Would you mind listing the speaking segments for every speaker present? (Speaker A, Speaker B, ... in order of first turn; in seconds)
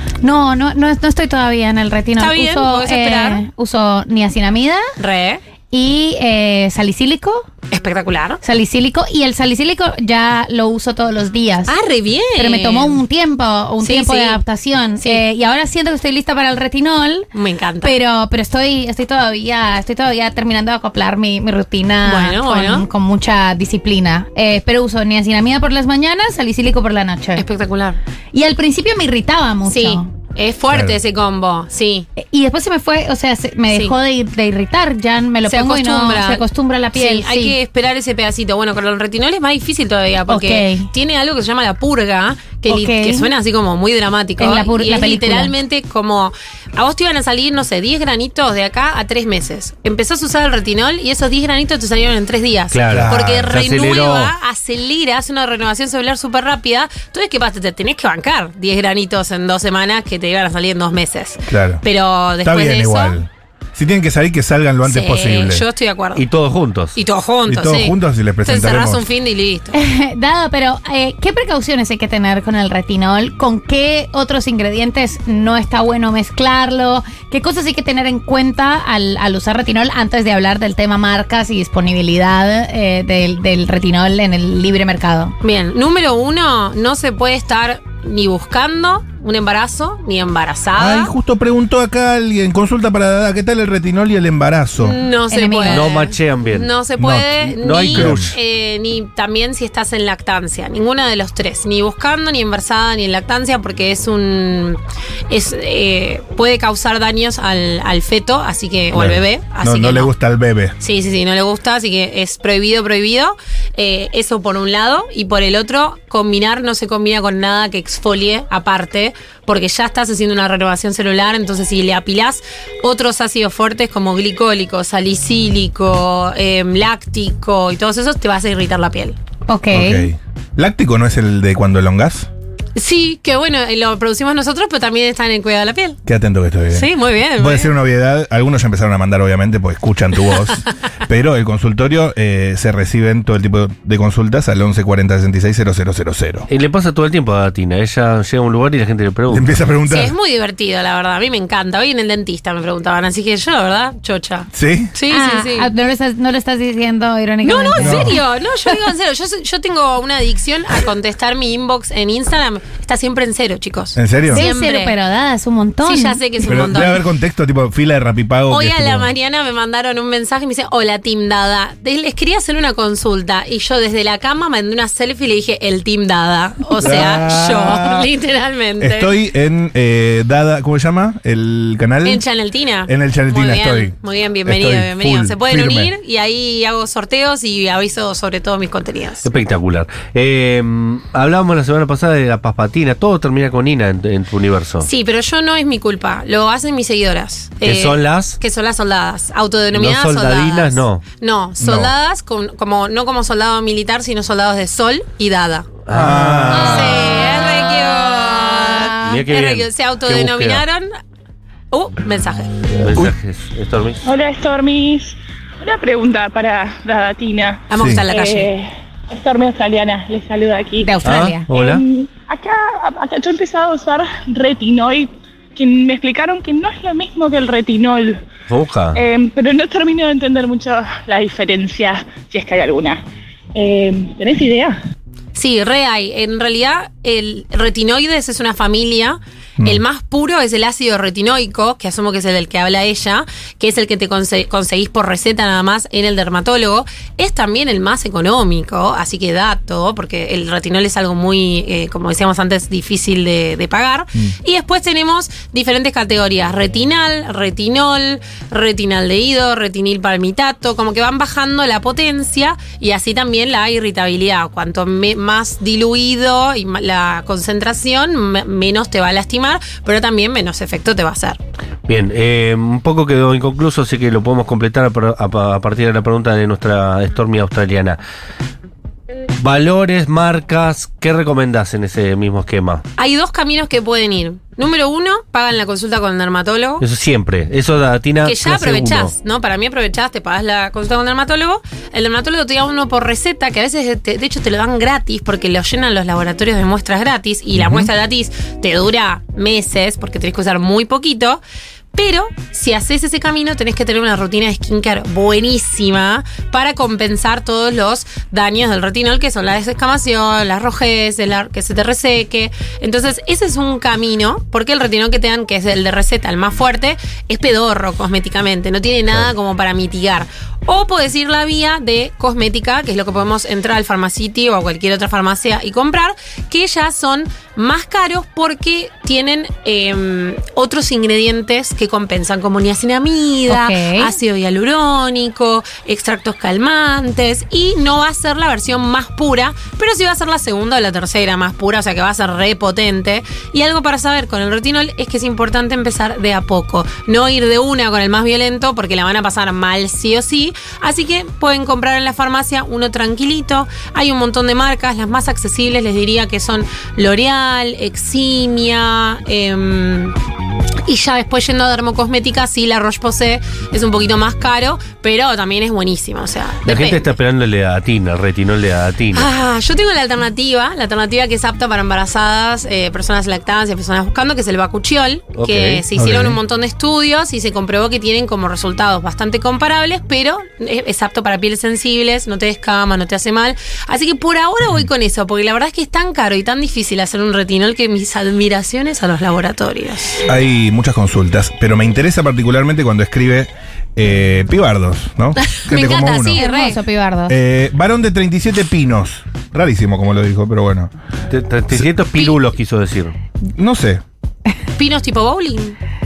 Speaker A: 0.2-4.8, 5.7-7.5, 8.4-11.7, 12.3-17.3, 17.8-27.4, 28.3-30.1, 32.1-37.5, 40.3-40.9, 42.7-43.3, 44.4-45.5, 69.7-85.3, 95.3-95.9, 129.5-130.1, 155.1-158.1, 164.3-166.2, 207.2-208.8, 220.8-221.5, 333.5-334.1, 396.3-397.3
Speaker B: 2.2-3.4, 5.0-5.4, 7.7-8.4, 11.7-13.0, 13.8-14.4, 17.3-17.9, 22.0-22.9, 27.4-28.0, 29.7-32.1, 33.7-34.0, 35.5-63.2, 64.8-66.2, 66.9-69.8, 85.4-91.1, 94.8-104.8, 105.3-110.1, 110.8-129.2, 132.8-136.0, 136.7-137.7, 149.9-155.7, 157.4-164.9, 165.8-167.0, 168.5-179.1, 182.0-189.3, 194.8-205.7, 206.5-210.9, 211.7-212.5, 217.7-218.5, 235.3-271.4, 283.0-286.8, 288.2-301.4, 301.9-360.1, 360.9-367.1, 369.1-390.2, 395.4-396.8, 404.8-405.8
Speaker C: 52.7-54.3, 66.1-67.0, 95.7-96.7, 97.6-98.3, 146.5-149.5, 189.2-194.9, 197.6-198.4, 199.7-201.0, 205.8-207.2, 208.9-210.6, 212.8-214.0, 221.0-221.8, 228.5-229.0, 271.9-278.0, 279.4-282.8, 286.8-289.1, 366.6-369.3, 375.3-375.8, 401.3-403.1
Speaker D: 52.9-53.6, 61.5-61.8, 62.4-65.6, 67.5-69.0, 90.8-95.0, 97.0-98.3, 108.9-110.7, 129.7-132.3, 136.1-146.4, 149.3-150.1, 154.5-154.9, 157.8-158.2, 163.9-164.5, 166.4-169.1, 176.8-178.1, 178.8-182.2, 182.9-183.9, 184.4-185.9, 201.6-201.9, 205.9-207.2, 217.8-218.1, 297.5-297.9, 375.9-376.4, 390.3-396.4, 397.3-400.9, 403.5-404.0
Speaker E: 214.0-220.9, 221.5-228.2, 228.9-233.0, 233.5-234.8